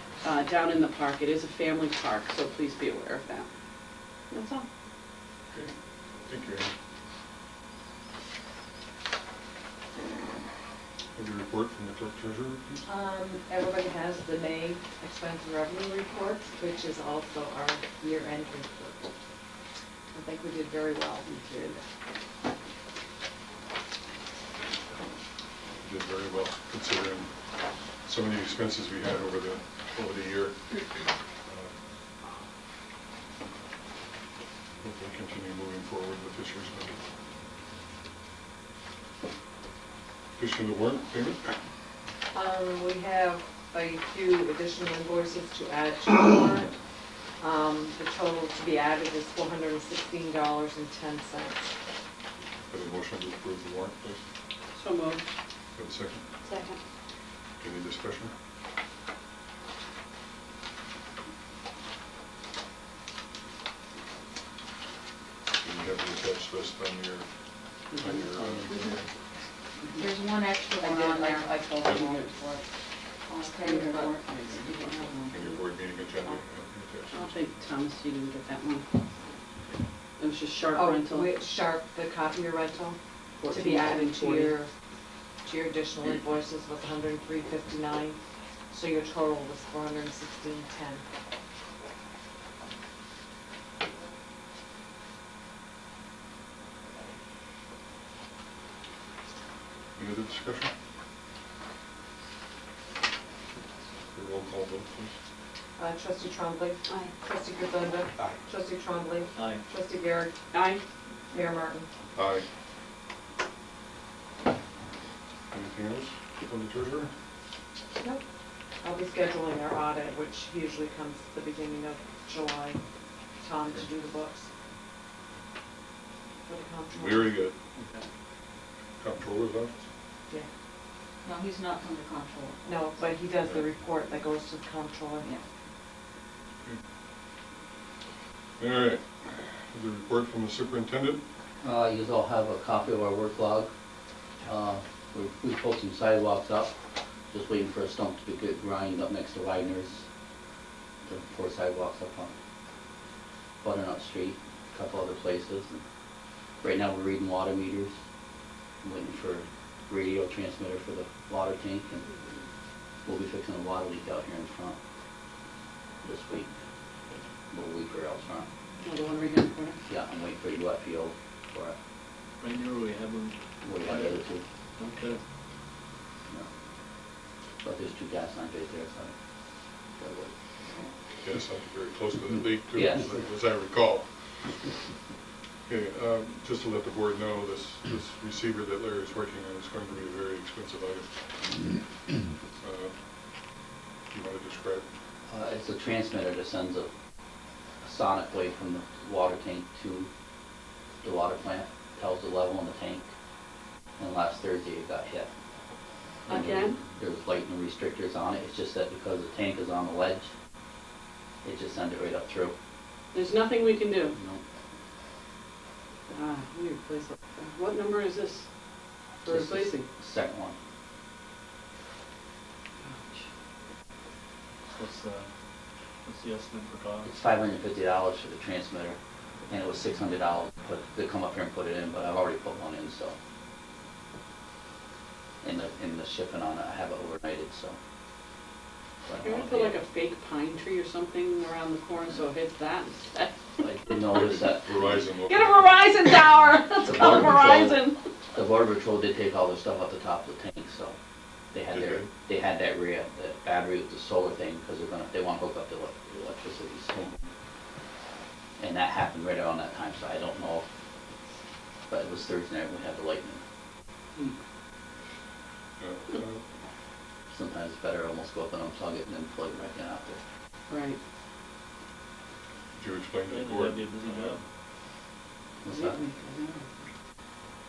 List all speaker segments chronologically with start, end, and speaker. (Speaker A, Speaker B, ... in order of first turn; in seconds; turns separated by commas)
Speaker A: 0.2-3.5, Speaker A: 4.3-4.7, Speaker B: 6.2-6.7, Speaker B: 11.1-12.8, Speaker C: 12.8-19.1, Speaker C: 20.1-21.8, Speaker B: 25.8-27.3, Speaker B: 28.0-30.6, Speaker B: 31.4-31.7, Speaker B: 34.8-37.0, Speaker B: 40.4-41.5, Speaker C: 42.3-46.7, Speaker C: 47.4-51.7, Speaker B: 52.7-54.2, Speaker A: 54.7-55.2, Speaker B: 55.8-56.2, Speaker A: 56.5-56.8, Speaker B: 57.6-58.3, Speaker B: 65.6-67.3, Speaker A: 67.9-68.8, Speaker B: 67.9-69.0, Speaker D: 69.9-72.3, Speaker C: 70.7-72.6, Speaker D: 73.3-75.6, Speaker A: 73.7-74.6, Speaker B: 75.3-77.4, Speaker A: 77.1-78.8, Speaker A: 80.2-81.3, Speaker C: 80.7-83.0, Speaker A: 83.4-84.5, Speaker C: 83.5-84.7, Speaker C: 85.4-88.2, Speaker C: 88.7-91.0, Speaker B: 100.0-100.7, Speaker B: 104.1-105.1, Speaker C: 105.8-110.3, Speaker A: 110.5-110.8, Speaker C: 111.3-111.9, Speaker B: 112.1-112.5, Speaker B: 115.5-117.1, Speaker C: 118.8-122.8, Speaker C: 123.4-124.5, Speaker C: 126.5-127.3, Speaker B: 126.9-128.0, Speaker B: 129.0-129.7, Speaker D: 131.2-133.0, Speaker C: 132.6-135.3, Speaker B: 138.6-141.2, Speaker E: 141.6-143.7, Speaker E: 144.4-146.7, Speaker E: 147.3-150.0, Speaker E: 151.0-152.3, Speaker E: 153.6-155.8, Speaker E: 156.6-157.9, Speaker E: 158.8-162.1, Speaker E: 163.0-164.8, Speaker E: 166.0-166.5, Speaker E: 167.5-168.5, Speaker A: 168.8-169.8, Speaker E: 169.9-171.8, Speaker F: 172.4-174.2, Speaker E: 173.6-174.4, Speaker F: 174.8-175.2, Speaker E: 177.6-179.1, Speaker E: 180.0-180.3, Speaker B: 181.2-184.5, Speaker E: 182.7-183.2, Speaker B: 185.7-191.1, Speaker B: 192.6-192.9, Speaker B: 194.1-194.8, Speaker E: 195.3-196.9, Speaker E: 197.8-200.1, Speaker E: 201.0-203.1, Speaker E: 204.0-205.3, Speaker A: 206.3-206.8, Speaker E: 206.3-210.3, Speaker E: 211.4-212.5, Speaker A: 213.1-214.2, Speaker E: 214.1-214.4, Speaker A: 216.1-218.5, Speaker A: 219.2-219.9, Speaker E: 219.2-220.5, Speaker A: 222.8-223.2, Speaker F: 224.7-225.3, Speaker F: 226.0-227.1, Speaker E: 227.0-233.2, Speaker E: 235.4-237.8, Speaker E: 239.1-239.8, Speaker A: 239.2-243.6, Speaker E: 243.6-245.1, Speaker B: 244.2-245.8, Speaker A: 245.3-248.0, Speaker C: 245.8-246.2, Speaker E: 246.8-251.0, Speaker E: 251.5-257.3, Speaker B: 251.7-252.1, Speaker E: 258.6-260.7, Speaker E: 261.9-263.4, Speaker B: 265.8-266.4, Speaker E: 267.3-270.2, Speaker A: 270.7-271.0, Speaker B: 272.7-274.4, Speaker F: 273.3-274.4, Speaker E: 275.6-276.0, Speaker A: 275.7-276.8